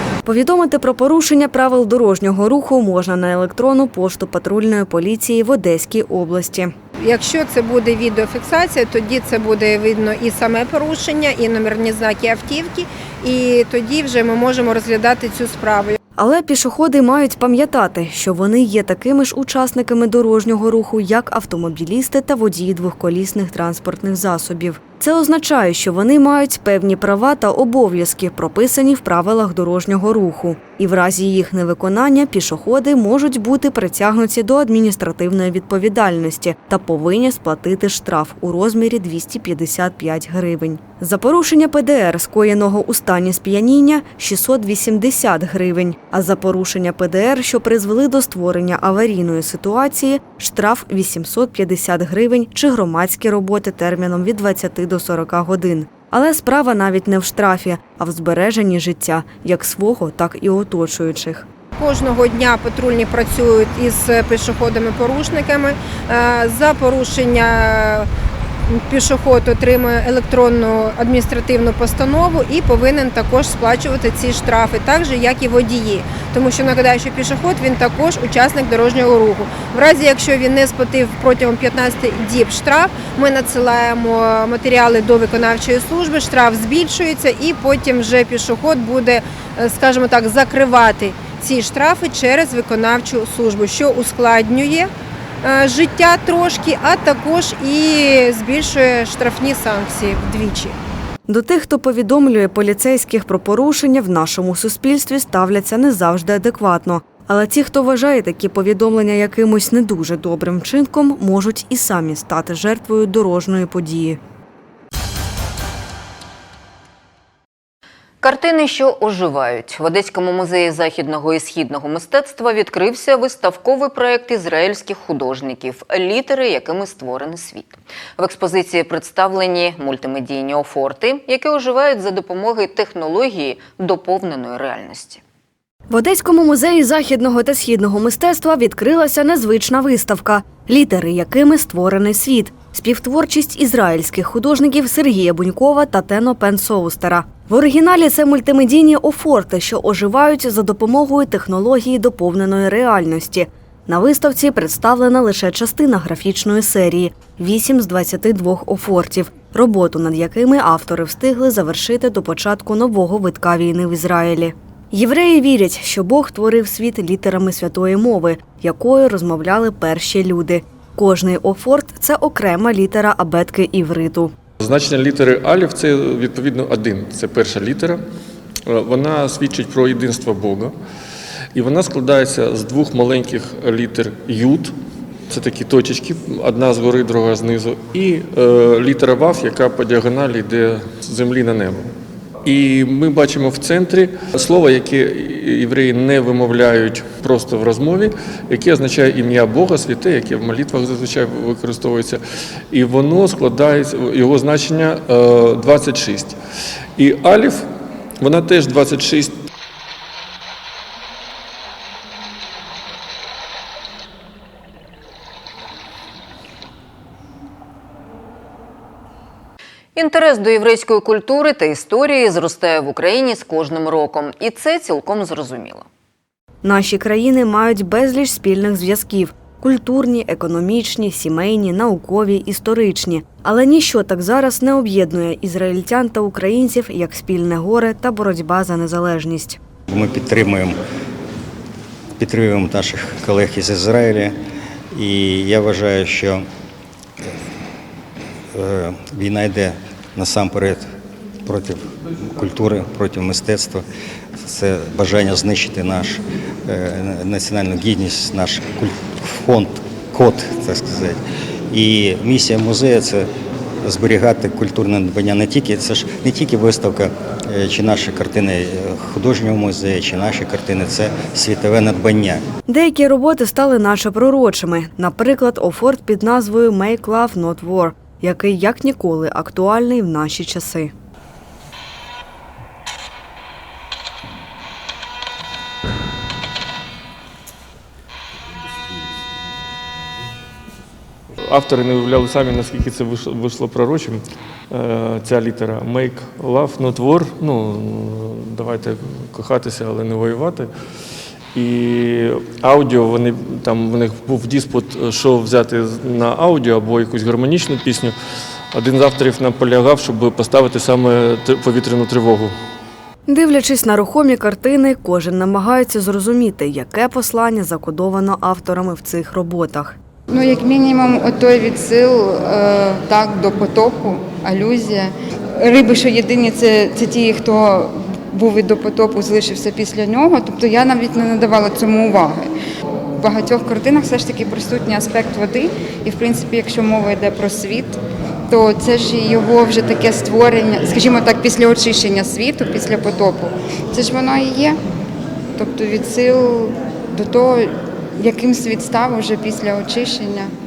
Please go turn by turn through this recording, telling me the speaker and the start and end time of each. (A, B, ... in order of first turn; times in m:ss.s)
0:00.2-0:06.7 A
0:07.0-0:16.0 B
0:16.2-1:01.4 A
1:01.8-1:08.1 B
1:08.7-1:34.9 B
1:35.4-1:40.7 B
1:41.3-1:54.2 A
1:58.2-2:15.2 C
2:15.9-2:54.3 A
2:54.6-2:58.0 D
2:58.6-3:00.7 D
3:01.5-3:04.7 D
3:05.3-3:11.9 D
3:12.4-3:22.2 D
3:22.7-3:26.4 D
3:27.0-3:27.7 D
3:28.2-3:29.4 D
3:40.0-3:45.8 C
3:46.6-3:59.6 A
3:59.9-4:00.8 E
4:02.2-4:04.4 E
4:04.9-4:06.5 E
4:08.5-4:10.9 E
4:11.4-4:13.8 E
4:14.4-4:21.2 E
4:21.7-4:23.3 E
4:23.8-4:32.4 E
4:32.7-4:40.9 A
4:51.4-5:00.7 D
5:01.5-5:08.2 D
5:08.7-5:12.6 D
5:13.3-5:20.0 A
5:20.3-5:32.5 F
5:33.2-5:44.8 F
5:45.6-5:50.5 F